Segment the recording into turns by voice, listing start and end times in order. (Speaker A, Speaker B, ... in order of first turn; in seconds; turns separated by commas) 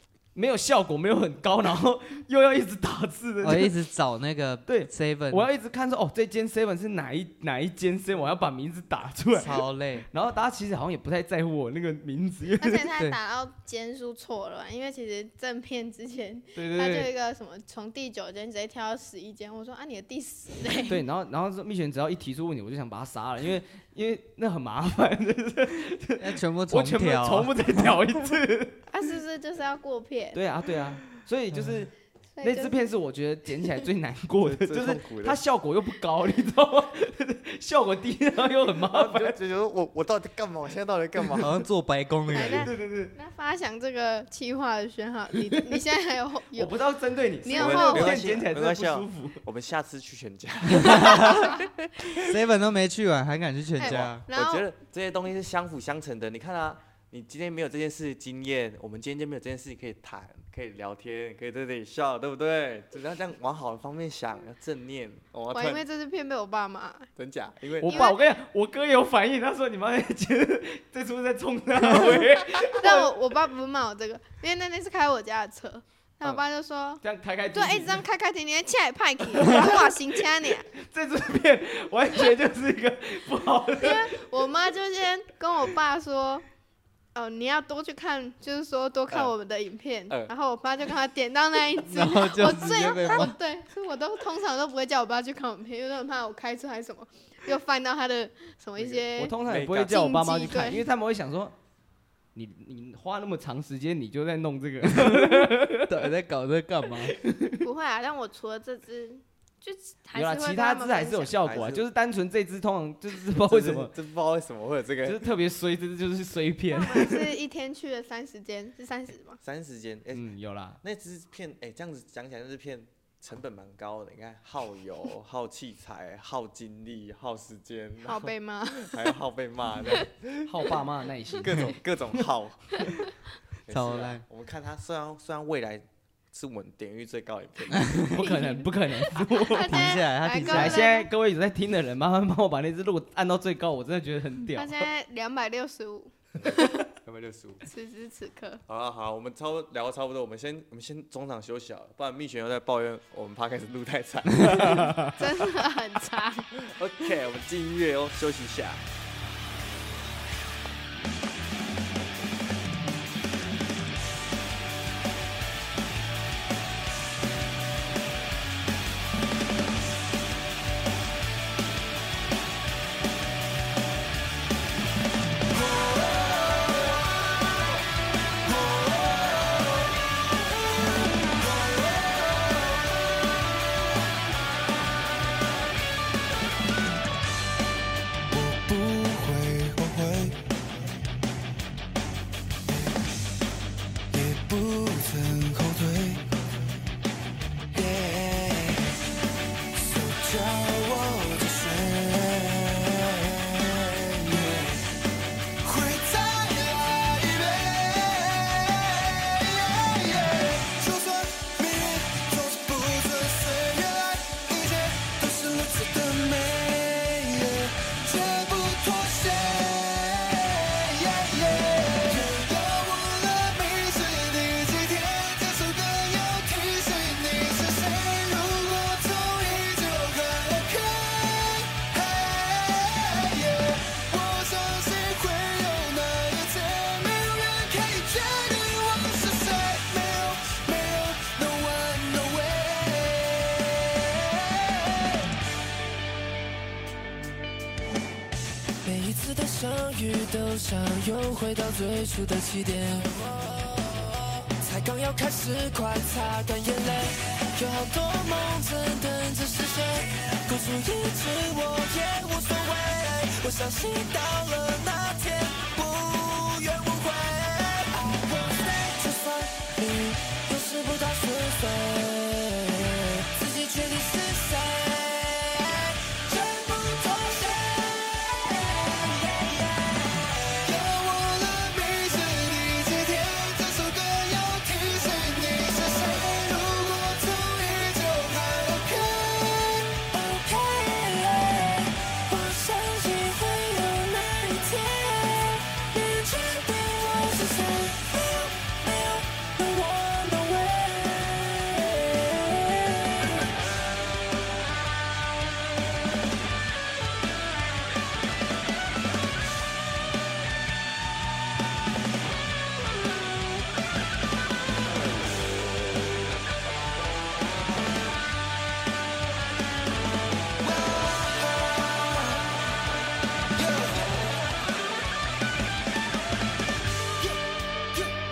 Speaker A: 0.3-3.8, Speaker B: 3.4-5.5, Speaker A: 4.7-12.9, Speaker B: 9.4-10.1, Speaker C: 12.6-21.0, Speaker A: 16.6-17.1, Speaker A: 20.9-28.8, Speaker B: 26.2-27.9, Speaker C: 28.9-30.4, Speaker A: 30.3-39.4, Speaker C: 32.4-32.9, Speaker D: 34.4-35.4, Speaker D: 38.9-41.6, Speaker B: 41.4-42.7, Speaker C: 42.3-46.8, Speaker A: 42.3-43.1, Speaker A: 46.5-49.4, Speaker C: 47.4-48.2, Speaker D: 47.5-51.6, Speaker B: 50.7-51.6, Speaker B: 52.1-54.2, Speaker C: 53.8-54.7, Speaker D: 53.8-65.8, Speaker C: 65.5-67.1, Speaker D: 67.2-68.1, Speaker A: 67.8-73.1, Speaker C: 67.8-68.2, Speaker C: 72.0-77.0, Speaker A: 77.0-78.0, Speaker C: 77.5-80.7, Speaker A: 79.4-80.1, Speaker A: 80.7-84.2, Speaker C: 83.8-86.5, Speaker C: 87.2-99.3, Speaker B: 91.8-93.4, Speaker D: 98.8-100.0, Speaker A: 99.2-101.6, Speaker C: 99.9-100.9, Speaker A: 102.3-106.1, Speaker B: 104.8-107.2, Speaker A: 107.0-107.6, Speaker C: 107.6-111.3, Speaker A: 110.2-113.9, Speaker D: 111.4-111.8, Speaker D: 113.4-115.2, Speaker A: 115.0-117.3, Speaker C: 116.7-119.4, Speaker D: 119.4-120.3, Speaker A: 120.1-120.8, Speaker D: 120.8-130.5, Speaker C: 128.0-129.2, Speaker A: 130.5-131.8, Speaker D: 131.4-132.9, Speaker D: 133.7-138.1, Speaker B: 133.7-134.2, Speaker B: 137.7-138.2, Speaker A: 138.1-144.9, Speaker C: 138.2-141.1, Speaker B: 139.7-140.9, Speaker C: 144.5-146.9, Speaker D: 146.4-147.7, Speaker C: 147.6-148.6, Speaker D: 148.7-155.0, Speaker C: 155.2-156.5, Speaker D: 156.6-158.8, Speaker E: 175.6-177.1, Speaker E: 178.5-179.5, Speaker E: 181.0-182.6, Speaker E: 188.3-190.4, Speaker E: 194.1-196.3, Speaker E: 197.7-199.0, Speaker E: 199.7-204.8, Speaker E: 205.6-245.3, Speaker E: 248.8-303.3, Speaker E: 320.6-322.5, Speaker E: 323.6-324.3